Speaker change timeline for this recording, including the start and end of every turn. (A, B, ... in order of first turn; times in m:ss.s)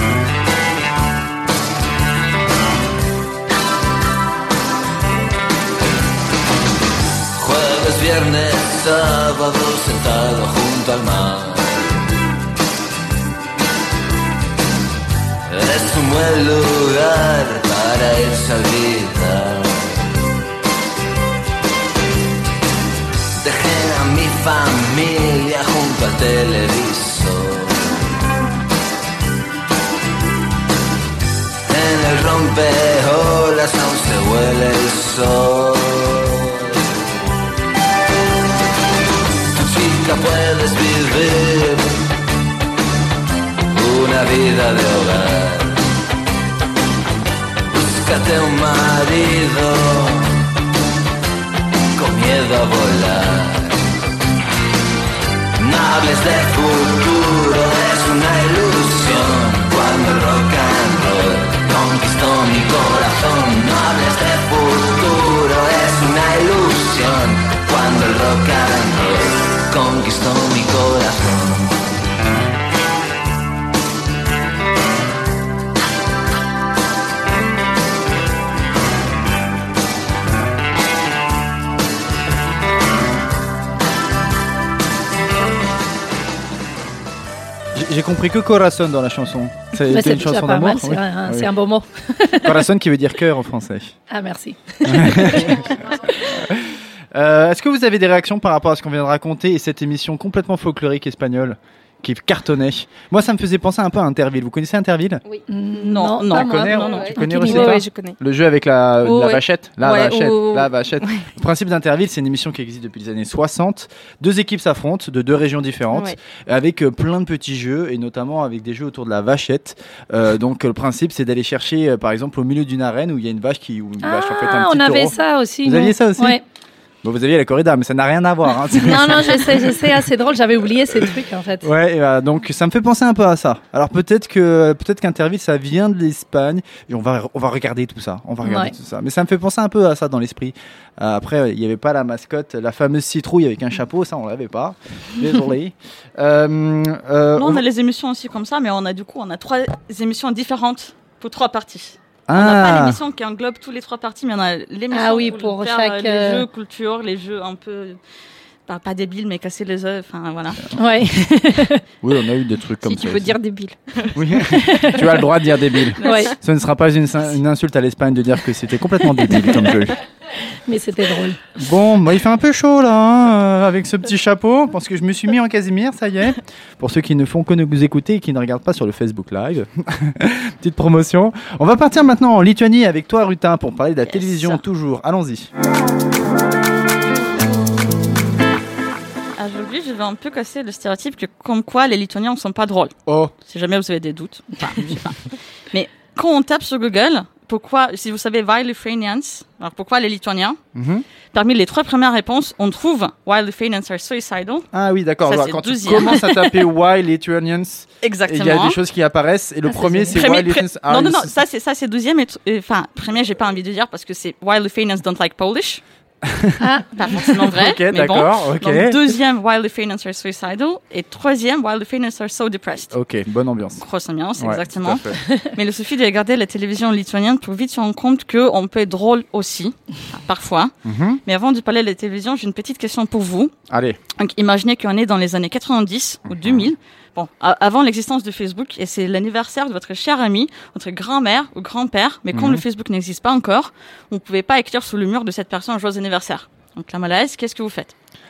0:07.3-0:12.2 A
0:15.5-0:20.2 A
0:23.4-0:28.2 A
0:31.7-0:37.0 A
0:39.5-0:42.0 A
0:43.7-0:45.8 A
0:47.7-0:50.4 A
0:52.0-0:53.8 A
0:55.6-1:12.0 A
1:27.7-1:31.5 B
1:29.8-1:32.6 C
1:32.4-1:34.0 B
1:34.1-1:35.8 C
1:34.8-1:45.2 B
1:45.5-1:47.8 C
1:45.8-1:47.2 D
1:46.3-2:06.4 B
1:46.7-1:48.2 E
1:49.0-1:51.3 E
2:04.0-2:06.4 C
2:07.0-2:10.0 B
2:08.7-2:11.7 C
2:11.6-2:27.6 B
2:18.4-2:18.8 C
2:27.4-2:38.0 D
2:32.3-2:33.0 B
2:34.9-2:36.4 C
2:38.7-2:40.7 D
2:40.8-2:41.8 C
2:42.0-2:43.4 B
2:42.8-2:44.2 E
2:44.1-2:50.0 B
2:44.6-2:45.1 C
2:46.0-2:46.3 C
2:46.0-2:46.3 E
2:50.6-2:51.4 C
2:51.6-3:05.5 B
3:04.1-3:04.6 D
3:09.4-3:12.9 D
3:13.1-3:13.3 B
3:13.5-3:20.6 D
3:20.8-3:21.0 B
3:21.3-3:24.7 D
3:24.7-3:31.3 B
3:25.2-3:26.4 D
3:28.0-3:28.8 D
3:29.8-3:30.2 C
3:30.1-3:35.8 D
3:36.2-3:36.6 B
3:36.6-3:37.1 C
3:37.0-3:42.9 D
3:37.4-3:39.1 B
3:42.9-3:43.8 B
3:43.8-3:50.7 D
3:44.4-3:45.2 B
3:50.8-3:51.2 B
3:51.3-3:53.5 D
3:53.7-3:54.0 B
3:54.2-4:07.9 D
3:56.3-3:56.7 B
4:02.3-4:02.6 B